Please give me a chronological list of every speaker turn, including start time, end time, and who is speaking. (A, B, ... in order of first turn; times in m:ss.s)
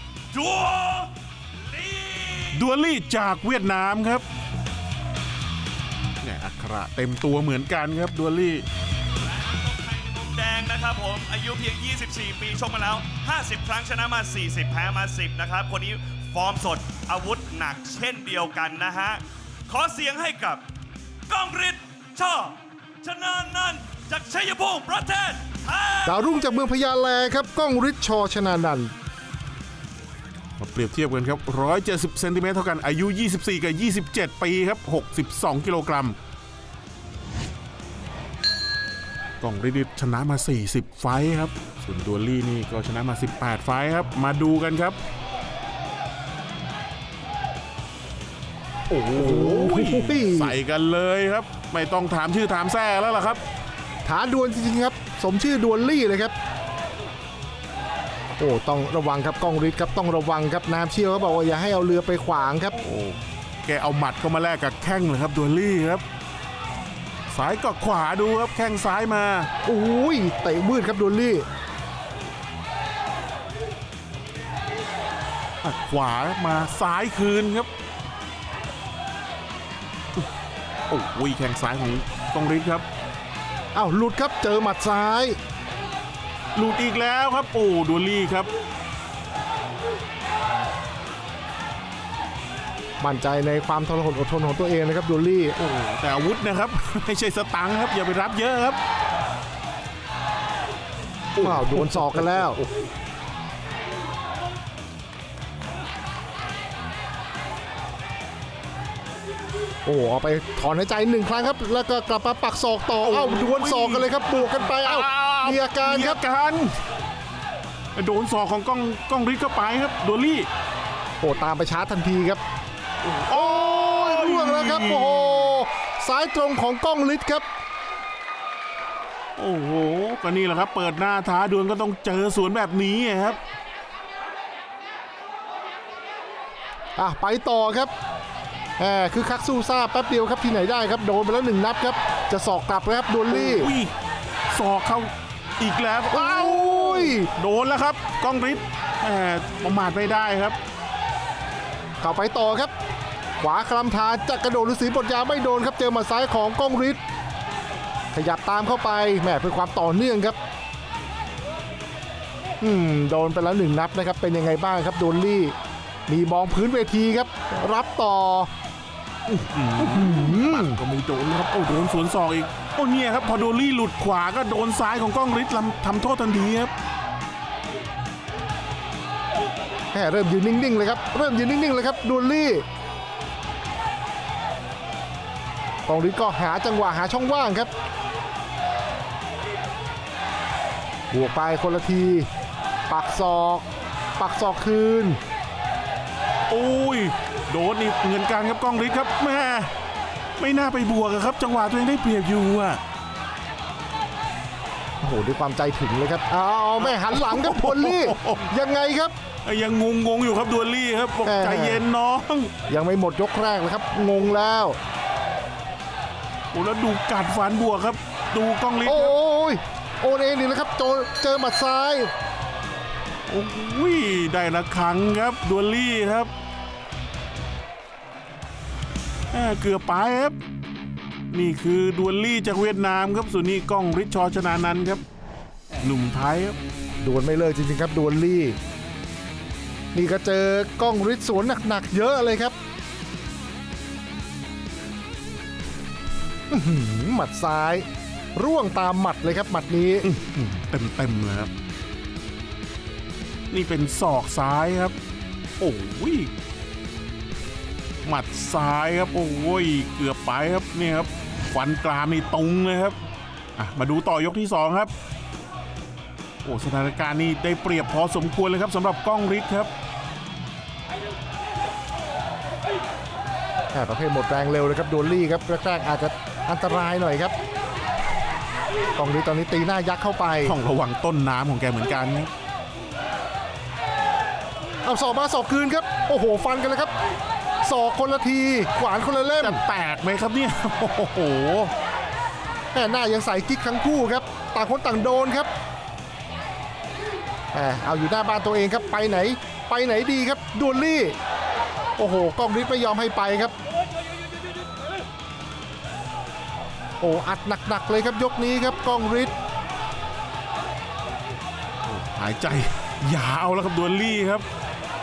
0:00.3-0:02.6 A
0:02.5-0:04.2 B
0:06.2-0:08.6 B
0:09.2-0:20.6 A
0:21.3-0:26.4 A
0:26.0-0:28.9 C
0:30.6-0:36.2 B
0:39.4-0:45.0 B
0:48.9-0:53.4 B
0:49.1-0:50.6 C
0:54.0-0:56.3 C
0:58.4-1:02.8 C
1:02.7-1:06.0 B
1:07.3-1:09.5 B
1:09.6-1:11.4 C
1:15.6-1:17.7 B
1:20.9-1:22.8 B
1:23.7-1:25.4 C
1:26.5-1:28.5 B
1:33.0-1:35.6 C
1:35.6-1:38.8 B
1:41.3-1:42.6 B
1:41.4-1:42.6 C
1:49.8-1:56.2 C
1:53.0-1:56.7 B
1:58.0-2:00.5 B
2:01.2-2:02.4 C
2:03.0-2:05.6 B
2:03.3-2:07.4 C
2:09.4-2:13.4 B
2:17.0-2:17.9 C
2:18.8-2:23.7 C
2:23.3-2:23.9 B
2:24.5-2:30.6 B
2:26.1-2:27.3 C
2:32.0-2:32.7 C
2:33.4-2:37.0 C
2:38.1-2:40.4 C
2:42.6-2:45.5 C
2:46.1-2:48.5 C
2:49.3-2:56.7 B
2:49.8-2:50.8 C
2:59.9-3:02.6 C
3:05.9-3:07.7 C
3:11.1-3:12.3 C
3:12.9-3:13.6 C
3:14.2-3:15.2 C
3:16.5-3:19.7 B
3:20.4-3:22.8 B
3:25.0-3:29.1 C
3:26.8-3:28.4 B
3:29.4-3:32.5 B
3:31.2-3:31.8 C
3:32.7-3:34.8 C
3:36.5-3:39.1 B
3:38.8-3:42.1 C
3:43.3-3:46.3 B
3:49.3-3:50.4 B
3:51.3-3:55.0 B
3:55.8-3:56.6 B
3:57.0-3:58.6 C
3:59.9-4:02.5 C
4:06.5-4:10.1 C
4:10.0-4:11.5 B
4:13.5-4:14.9 B
4:15.6-4:16.3 B
4:18.0-4:23.0 B
4:23.6-4:24.9 B
4:26.4-4:29.7 B
4:33.7-4:37.3 C
4:39.0-4:40.6 C
4:40.4-4:42.3 B
4:44.8-4:46.9 C
4:47.6-4:49.6 C
4:49.4-4:51.7 B
4:52.7-4:55.5 C
4:57.5-5:01.2 C
5:02.0-5:03.5 C
5:07.0-5:09.3 C
5:11.8-5:14.4 B